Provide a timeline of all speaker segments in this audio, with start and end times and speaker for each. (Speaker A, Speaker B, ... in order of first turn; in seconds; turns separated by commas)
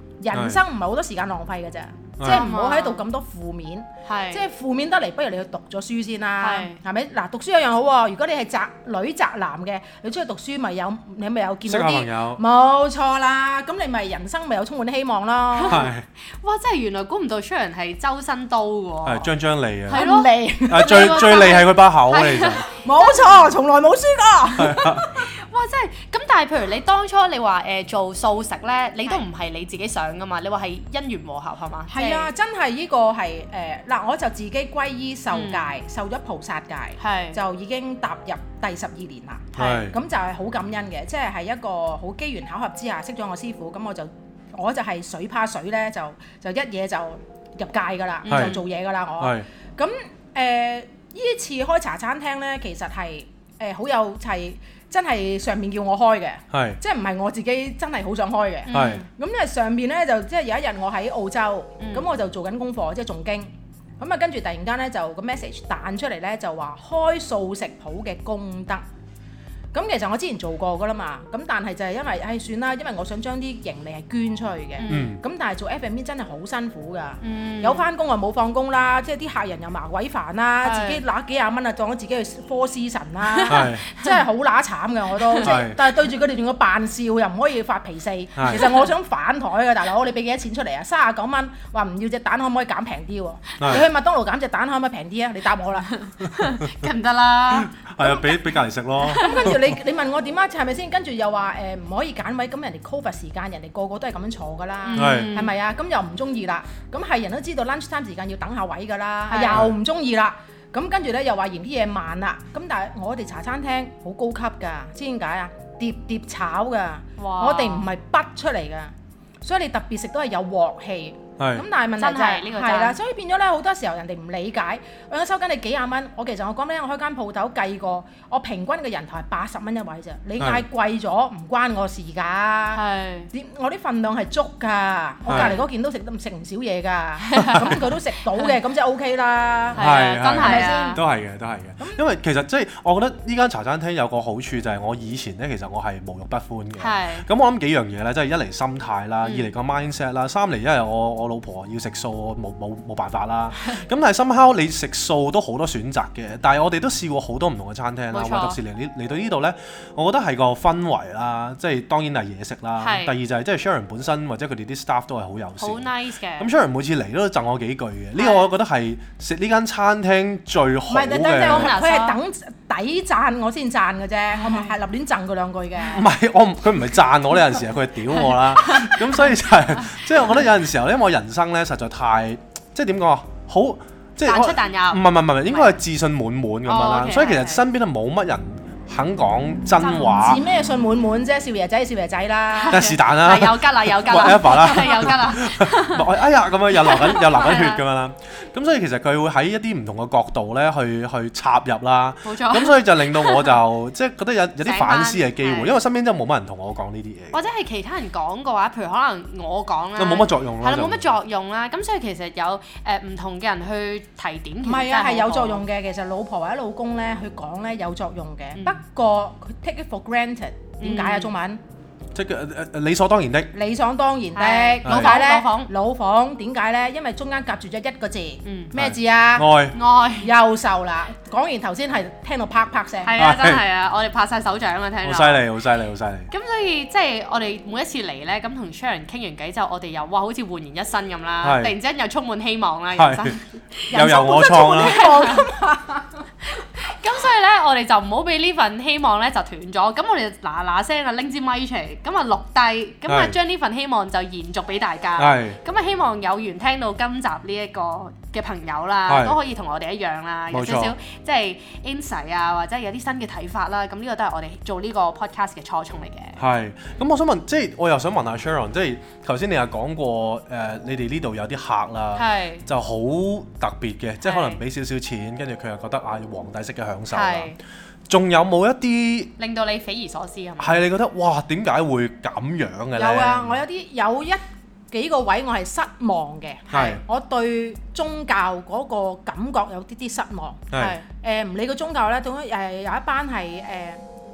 Speaker A: 0.2-15.9, Speaker B: 0.3-0.6, Speaker B: 2.2-2.5, Speaker C: 2.2-3.0, Speaker C: 4.0-4.4, Speaker C: 6.4-6.8, Speaker B: 11.7-12.4, Speaker C: 15.5-19.3, Speaker B: 15.7-16.0, Speaker B: 19.0-20.1, Speaker C: 19.9-23.4, Speaker A: 19.9-21.6, Speaker B: 20.6-22.6, Speaker A: 22.7-25.3, Speaker B: 24.6-25.1, Speaker C: 25.2-32.3, Speaker A: 31.9-68.8, Speaker C: 35.3-35.7, Speaker C: 37.0-37.4, Speaker C: 39.5-39.9, Speaker B: 39.5-40.0, Speaker C: 48.2-48.6, Speaker B: 48.3-48.6, Speaker B: 49.2-49.5, Speaker B: 56.5-56.8, Speaker C: 58.7-59.0, Speaker B: 58.7-59.0, Speaker C: 61.8-62.1, Speaker A: 69.7-95.9, Speaker C: 74.8-75.1, Speaker B: 74.9-75.2, Speaker C: 77.2-77.9, Speaker C: 80.6-81.0, Speaker C: 83.3-84.2, Speaker B: 83.5-83.9, Speaker C: 85.2-85.6, Speaker B: 85.4-85.8, Speaker B: 88.3-88.7, Speaker C: 88.5-88.8, Speaker B: 93.6-93.8, Speaker C: 95.9-98.3, Speaker B: 96.3-96.8, Speaker B: 97.5-99.6, Speaker C: 99.0-99.5, Speaker A: 99.1-141.0, Speaker C: 104.8-105.5, Speaker B: 104.9-105.3, Speaker C: 109.3-109.7, Speaker C: 117.2-117.9, Speaker B: 121.4-121.7, Speaker C: 122.0-123.0, Speaker B: 130.4-130.6, Speaker C: 132.7-133.3, Speaker B: 135.3-135.6, Speaker C: 135.3-135.6, Speaker C: 137.2-137.8, Speaker C: 139.8-141.0, Speaker B: 139.8-171.7, Speaker C: 146.8-147.3, Speaker C: 149.2-149.5, Speaker C: 153.6-153.8, Speaker C: 158.1-158.6, Speaker C: 162.8-163.1, Speaker C: 165.6-166.5, Speaker C: 168.2-168.4, Speaker A: 170.9-176.1, Speaker C: 171.5-172.2, Speaker C: 174.4-174.7, Speaker B: 175.9-190.4, Speaker C: 178.3-180.2, Speaker C: 184.2-185.8, Speaker C: 186.7-187.6, Speaker A: 189.8-192.9, Speaker C: 192.5-197.8, Speaker B: 192.7-207.4, Speaker C: 202.2-203.6, Speaker C: 204.6-205.8, Speaker C: 207.3-215.6, Speaker B: 210.0-211.1, Speaker A: 214.6-221.6, Speaker C: 220.8-221.3, Speaker B: 222.1-223.5, Speaker A: 223.5-229.6, Speaker C: 224.3-225.7, Speaker B: 224.8-225.1, Speaker C: 228.4-228.7, Speaker B: 228.7-229.8, Speaker C: 229.7-230.3, Speaker A: 230.2-233.2, Speaker C: 233.0-235.5, Speaker B: 233.2-233.6, Speaker B: 235.0-236.3, Speaker C: 236.3-245.5, Speaker B: 241.4-241.7, Speaker B: 242.9-243.3, Speaker B: 243.9-245.1, Speaker A: 243.9-246.3, Speaker C: 246.5-266.4, Speaker B: 253.1-253.4, Speaker B: 255.2-255.6, Speaker B: 259.1-259.4, Speaker B: 260.5-260.9, Speaker B: 266.4-277.5, Speaker C: 272.1-272.6, Speaker C: 274.2-274.6, Speaker C: 277.1-277.6, Speaker B: 278.1-279.3, Speaker C: 279.4-280.8, Speaker B: 280.6-283.6, Speaker A: 282.9-294.0, Speaker B: 286.7-287.0, Speaker B: 290.7-291.0, Speaker C: 290.7-291.0